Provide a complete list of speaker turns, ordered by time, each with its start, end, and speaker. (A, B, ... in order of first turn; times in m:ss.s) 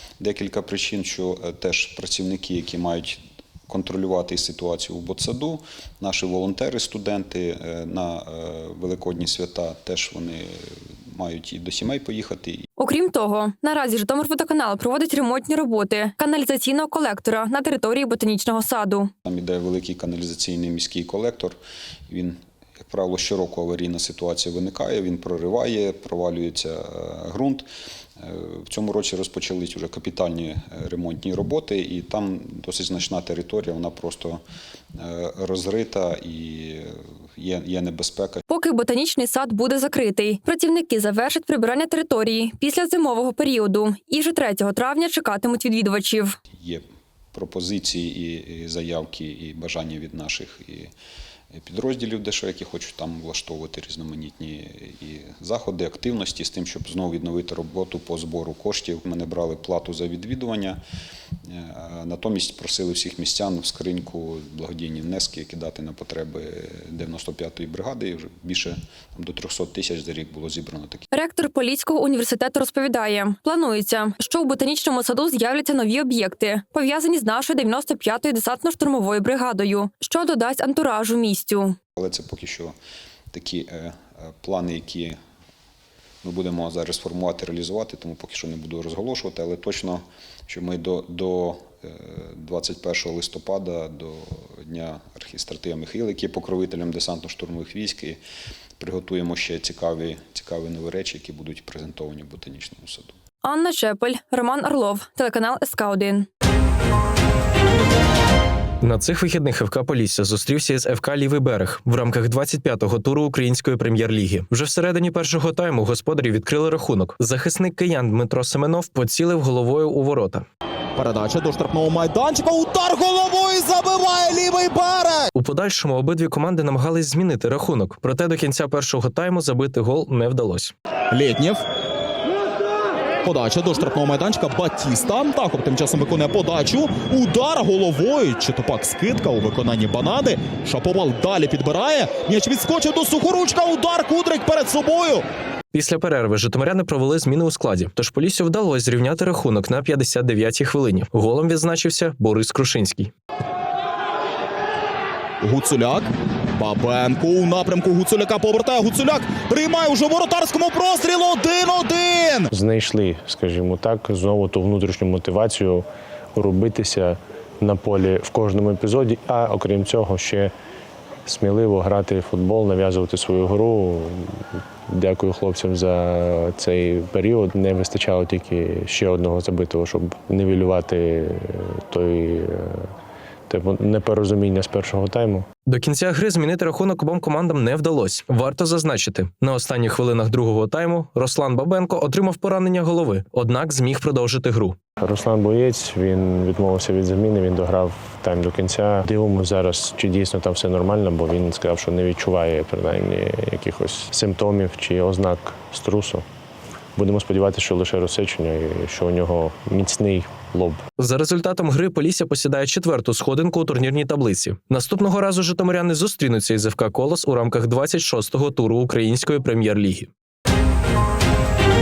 0:00.2-0:12.6 A
0:12.8-0:19.1 B
0:19.2-0:21.6 A
0:22.1-0:27.7 A
0:28.2-0:34.4 A
0:35.0-0:38.4 A
0:38.5-0:46.4 B
0:46.6-0:50.9 A
0:51.5-1:00.8 A
1:01.5-1:11.0 A
1:11.1-1:21.8 B
1:22.0-1:22.7 A
1:23.3-1:25.2 A
1:26.2-1:38.2 A
1:38.8-1:43.1 A
1:43.4-1:46.3 B
1:48.8-2:00.4 C
2:01.0-2:05.3 D
2:05.3-2:10.7 C
2:11.1-2:11.6 D
2:13.2-2:25.2 D
2:25.7-2:33.1 C
2:35.4-2:42.5 D
2:42.5-2:50.5 E
2:51.2-3:02.9 E
3:03.5-3:05.5 E
3:05.7-3:14.8 C
3:15.0-3:26.2 E
3:27.0-3:30.8 E
3:31.0-3:40.1 C